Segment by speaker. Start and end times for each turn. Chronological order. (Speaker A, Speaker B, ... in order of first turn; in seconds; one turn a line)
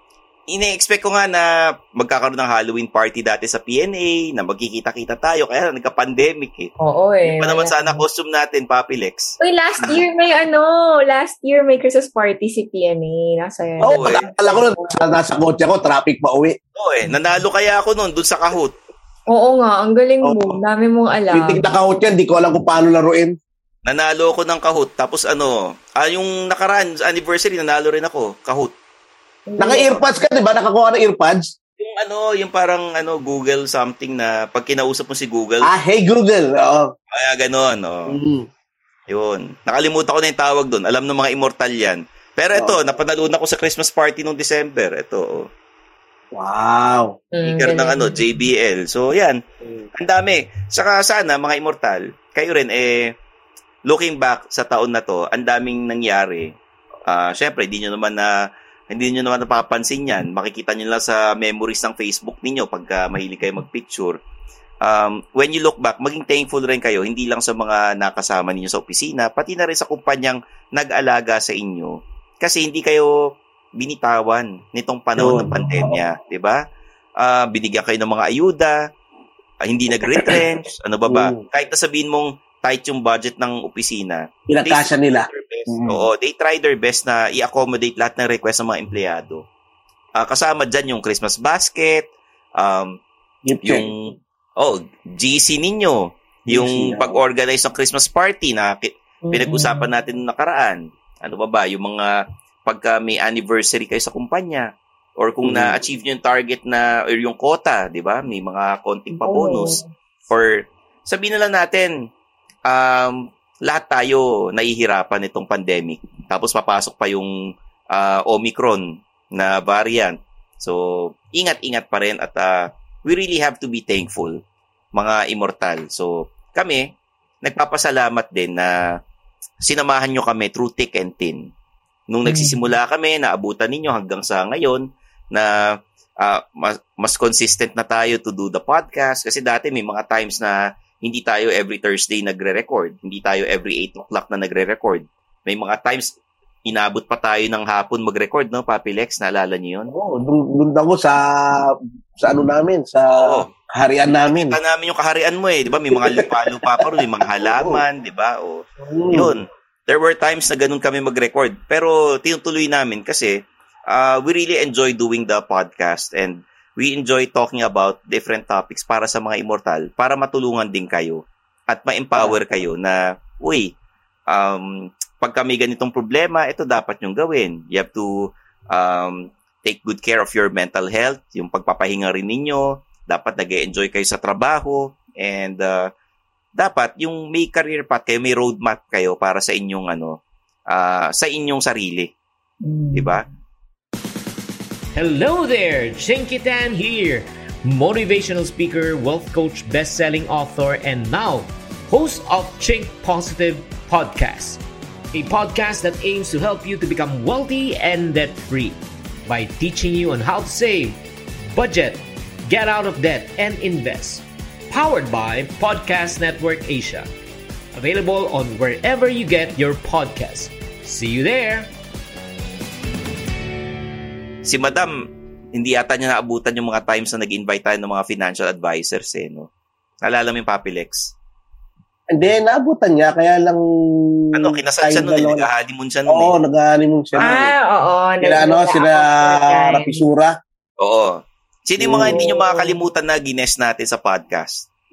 Speaker A: 0.5-6.7
Speaker B: 6.8-8.0
Speaker A: 7.3-10.0
Speaker B: 9.4-15.0
Speaker C: 13.8-16.6
Speaker A: 13.9-14.2
Speaker A: 16.8-18.8
Speaker B: 19.3-21.6
Speaker C: 20.2-20.6
Speaker C: 21.3-23.4
Speaker A: 23.9-28.7
Speaker B: 29.5-30.0
Speaker C: 29.6-31.5
Speaker A: 31.8-35.7
Speaker C: 35.6-36.9
Speaker A: 37.1-38.1
Speaker C: 38.1-38.5
Speaker A: 39.1-45.5
Speaker C: 46.4-47.1
Speaker B: 47.4-48.2
Speaker A: 47.5-49.4
Speaker A: 50.0-53.1
Speaker A: 53.9-56.5
Speaker A: 57.1-58.3
Speaker A: 58.9-64.2
Speaker A: 64.8-73.1
Speaker A: 73.8-76.6
Speaker C: 75.2-76.0
Speaker A: 77.2-78.8
Speaker A: 79.6-89.4
Speaker C: 80.1-80.4
Speaker C: 81.1-81.4
Speaker C: 84.5-86.0
Speaker A: 90.2-92.1
Speaker A: 92.6-93.0
Speaker C: 93.5-93.9
Speaker A: 93.6-94.0
Speaker A: 94.6-102.1
Speaker C: 96.5-97.2
Speaker B: 99.3-99.9
Speaker A: 102.7-111.9
Speaker C: 105.4-105.8
Speaker B: 109.1-109.8
Speaker A: 112.7-117.3
Speaker A: 117.9-124.4
Speaker A: 124.9-126.8
Speaker A: 127.4-128.7
Speaker A: 129.6-131.5
Speaker A: 132.1-135.5
Speaker B: 132.3-132.6
Speaker A: 136.2-146.1
Speaker A: 146.7-149.9
Speaker C: 149.9-154.6
Speaker A: 153.1-153.5
Speaker A: 154.2-163.3
Speaker C: 155.9-156.9
Speaker C: 157.4-157.8
Speaker C: 158.8-159.4
Speaker A: 163.9-173.7
Speaker C: 172.2-172.4
Speaker A: 174.3-185.9
Speaker A: 186.6-190.2
Speaker A: 190.7-192.1
Speaker B: 192.6-193.2
Speaker A: 192.9-193.2
Speaker D: 194.9-204.6
Speaker D: 205.1-211.0
Speaker D: 211.5-217.1
Speaker D: 217.8-221.7
Speaker A: 224.4-224.9
Speaker A: 225.6-229.5
Speaker A: 230.0-231.1
Speaker C: 232.1-233.6
Speaker A: 234.3-236.3
Speaker C: 234.3-235.5
Speaker C: 236.1-237.5
Speaker B: 237.2-240.0
Speaker C: 238.2-240.3
Speaker A: 240.8-244.7
Speaker C: 241.8-242.2
Speaker B: 242.0-242.8